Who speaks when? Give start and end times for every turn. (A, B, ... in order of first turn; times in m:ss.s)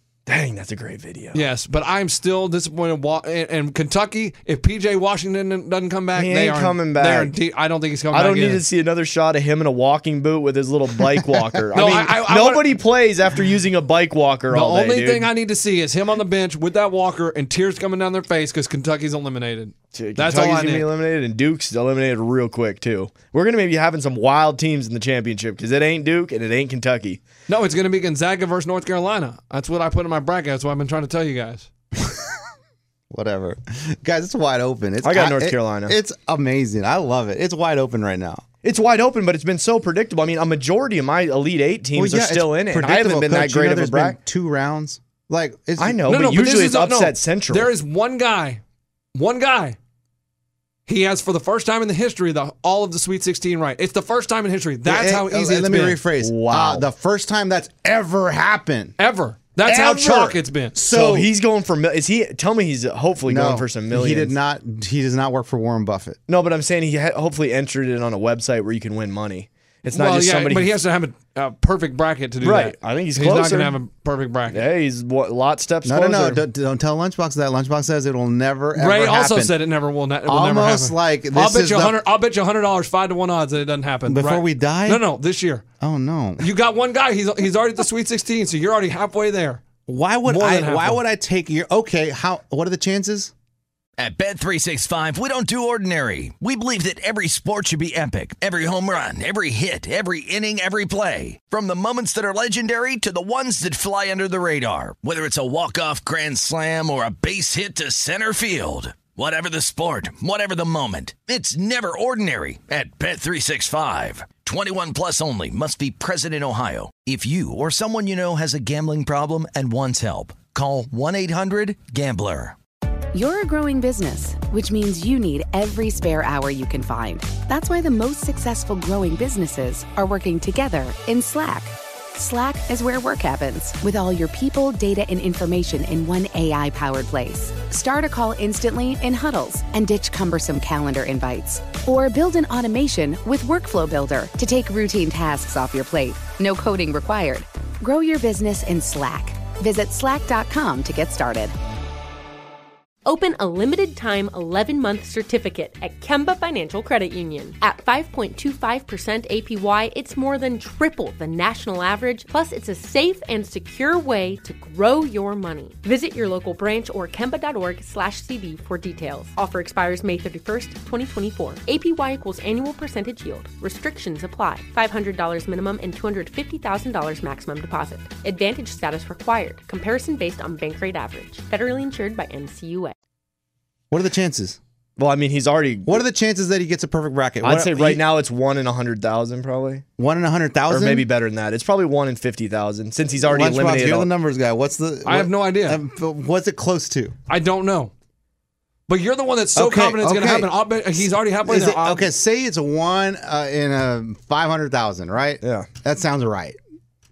0:00.3-0:01.4 A
0:01.3-0:08.6 B
0:06.1-0:07.4 A
0:08.1-0:15.3 A
0:11.7-0:12.7 B
0:14.5-0:20.9 B
0:19.9-0:27.2 A
0:27.5-0:31.7 B
0:33.1-0:38.4 C
0:35.0-0:36.0 A
0:38.6-0:44.2 A
0:42.0-0:46.0 C
0:45.8-0:47.7 A
0:46.1-0:48.6 B
0:49.2-0:49.8 B
0:50.9-0:56.0 B
0:54.8-0:59.0 C
0:56.2-0:56.9 A
0:59.0-1:00.8 B
0:59.7-1:01.3 C
1:00.9-1:04.4 A
1:03.3-1:06.2 C
1:06.3-1:10.8 A
1:09.9-1:14.6 B
1:12.4-1:13.8 A
1:14.5-1:16.4 A
1:15.9-1:19.5 C
1:18.8-1:25.6 B
1:20.3-1:22.0 C
1:24.1-1:25.1 C
1:25.8-1:26.5 C
1:26.4-1:29.6 B
1:29.9-1:33.3 C
1:30.2-1:31.0 B
1:34.0-2:02.6 D
2:03.1-2:31.5 E
2:33.0-3:03.0 F
3:03.9-3:04.6 C
3:05.0-3:06.0 A
3:05.9-3:08.0 C
3:07.4-3:09.8 A
3:10.0-3:11.1 C
3:10.7-3:14.1 A
3:13.2-3:17.2 C
3:15.0-3:15.8 B
3:17.3-3:17.9 B
3:18.9-3:22.1 B
3:19.6-3:20.5 C
3:21.5-3:26.6 C
3:25.4-3:25.7 A